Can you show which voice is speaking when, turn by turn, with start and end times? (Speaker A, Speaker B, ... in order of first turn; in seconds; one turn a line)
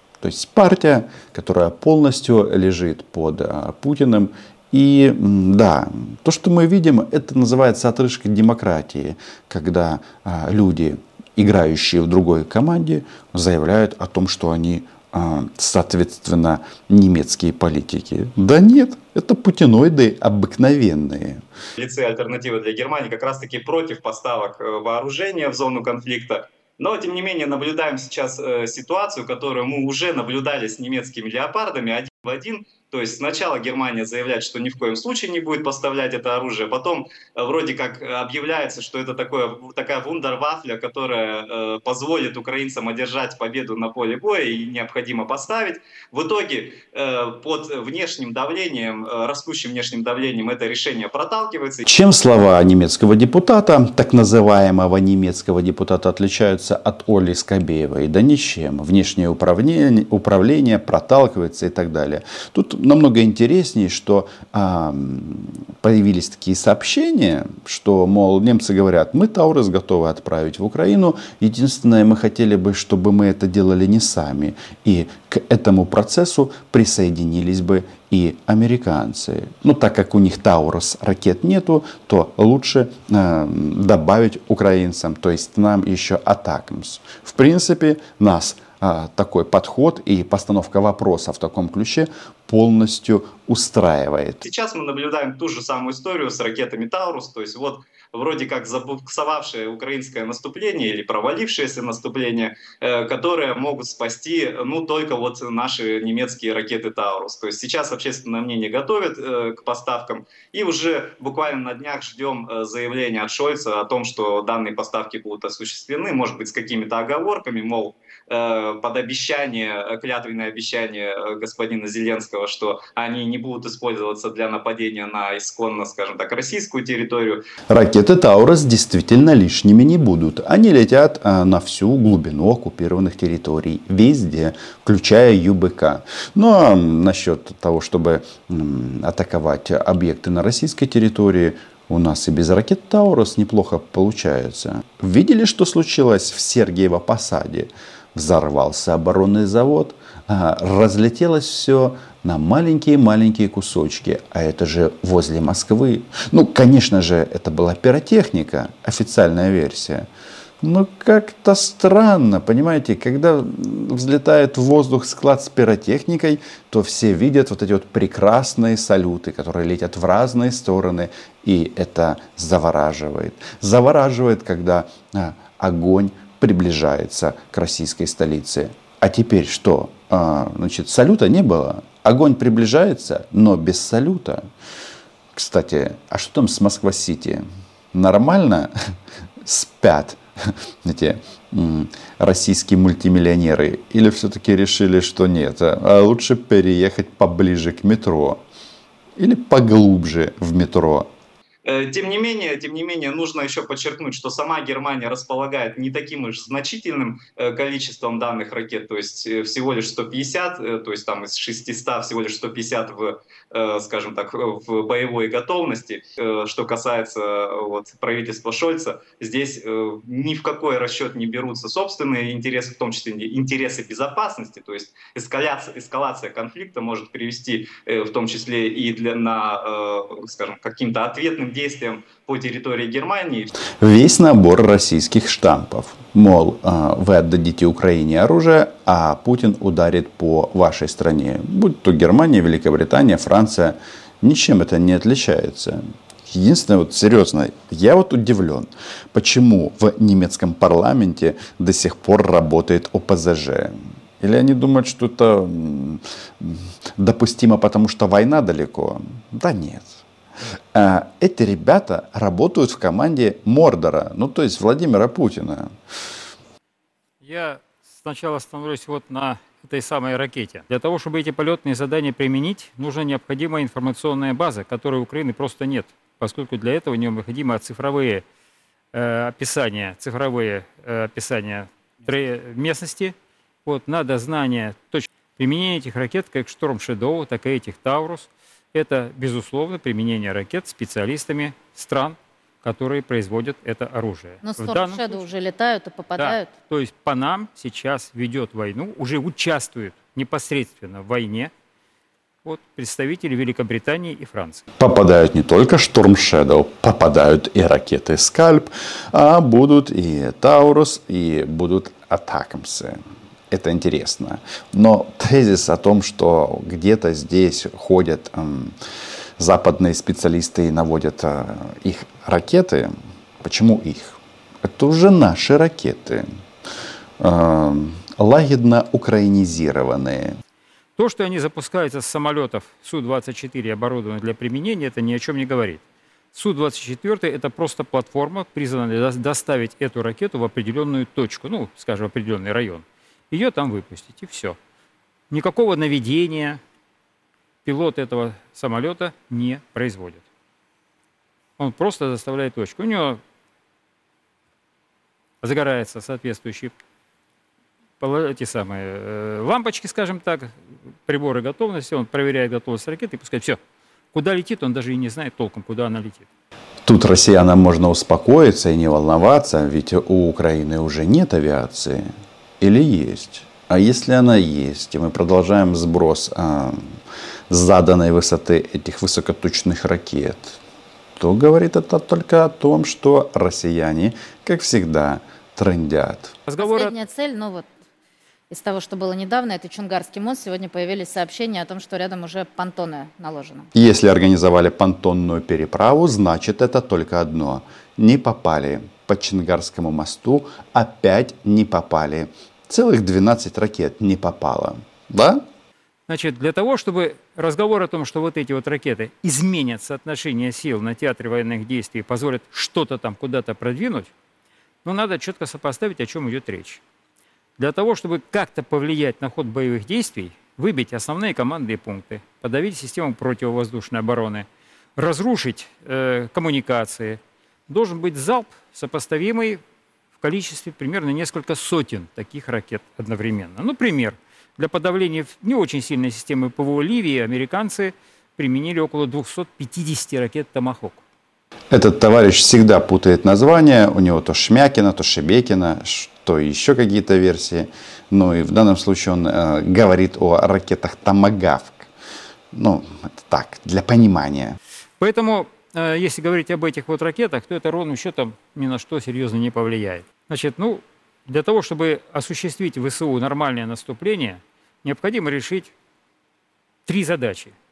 Speaker A: 0.2-21.4
Speaker B: 21.8-51.8
Speaker A: 51.8-94.4
Speaker B: 94.4-127.4
Speaker A: 127.7-160.1
Speaker A: 160.6-184.4
Speaker A: 185.3-188.7
Speaker A: 189.4-198.4
Speaker A: 199.2-201.1
Speaker B: 201.7-233.5
Speaker A: 233.8-260.0
Speaker A: 260.7-265.7
Speaker C: 267.2-278.2
Speaker C: 278.9-283.1
Speaker C: 283.6-295.3
Speaker D: 294.4-296.5
Speaker C: 296.2-301.5
Speaker C: 302.4-304.6
Speaker A: 304.8-313.0
Speaker A: 313.5-318.8
Speaker A: 319.4-326.2
Speaker A: 327.2-330.4
Speaker C: 331.0-335.8
Speaker C: 336.3-344.6
Speaker C: 345.3-346.6
Speaker C: 347.6-350.2
Speaker C: 351.6-353.2
Speaker C: 355.4-356.7
Speaker C: 358.0-360.5
Speaker C: 361.1-363.6
Speaker C: 364.1-366.3
Speaker A: 366.8-372.1
Speaker A: 372.6-376.8
Speaker A: 377.5-380.6
Speaker A: 381.2-386.4
Speaker C: 386.5-386.9
Speaker D: 386.6-387.7
Speaker D: 388.5-393.7
Speaker A: 393.7-405.4
Speaker C: 406.1-414.1
Speaker C: 414.8-416.8
Speaker C: 417.6-429.6
Speaker C: 430.2-441.0
Speaker A: 441.7-451.9
Speaker A: 452.5-454.6
Speaker C: 455.0-465.7
Speaker C: 466.9-467.5